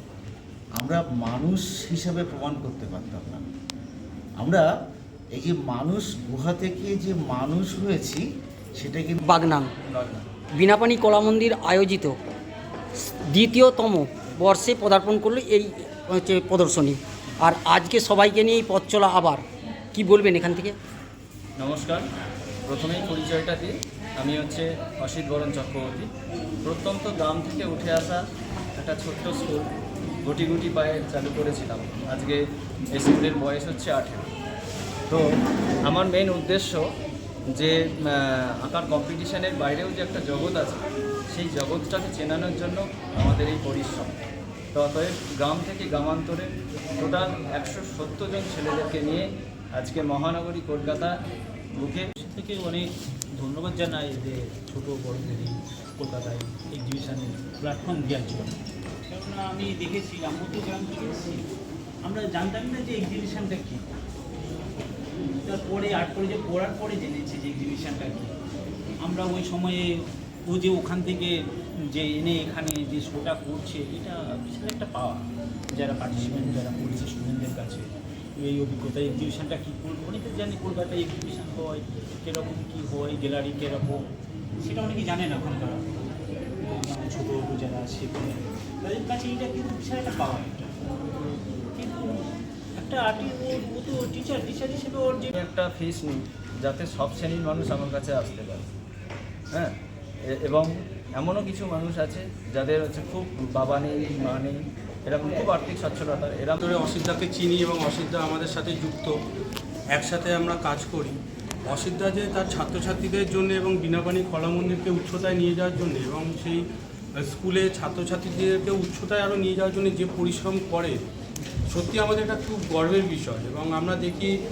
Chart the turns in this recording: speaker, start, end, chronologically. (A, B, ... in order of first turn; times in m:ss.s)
0:00.8-0:03.4 A
0:04.4-0:04.6 A
0:05.3-0:08.2 A
0:08.8-0:09.2 A
0:09.2-0:09.7 B
0:09.9-0:10.2 C
0:10.6-0:12.2 B
0:13.3-0:19.4 B
0:19.9-0:20.8 B
0:21.6-0:22.0 C
0:22.7-0:26.1 C
0:26.6-0:28.2 C
0:28.8-0:29.6 C
0:30.2-0:32.4 C
0:32.9-0:34.3 C
0:35.9-0:36.8 C
0:37.6-0:44.2 C
0:44.7-0:51.1 C
0:51.8-0:52.0 C
0:52.2-1:01.5 D
1:02.0-1:03.8 D
1:05.2-1:08.3 D
1:09.0-1:11.4 D
1:11.9-1:24.0 D
1:24.6-1:25.9 D
1:26.6-1:30.8 D
1:31.7-1:32.2 D
1:32.8-1:35.3 D
1:35.3-1:38.7 C
1:40.4-1:46.6 C
1:46.6-1:49.1 E
1:49.9-1:51.2 E
1:51.7-1:56.6 E
1:57.2-2:01.0 E
2:01.7-2:04.3 E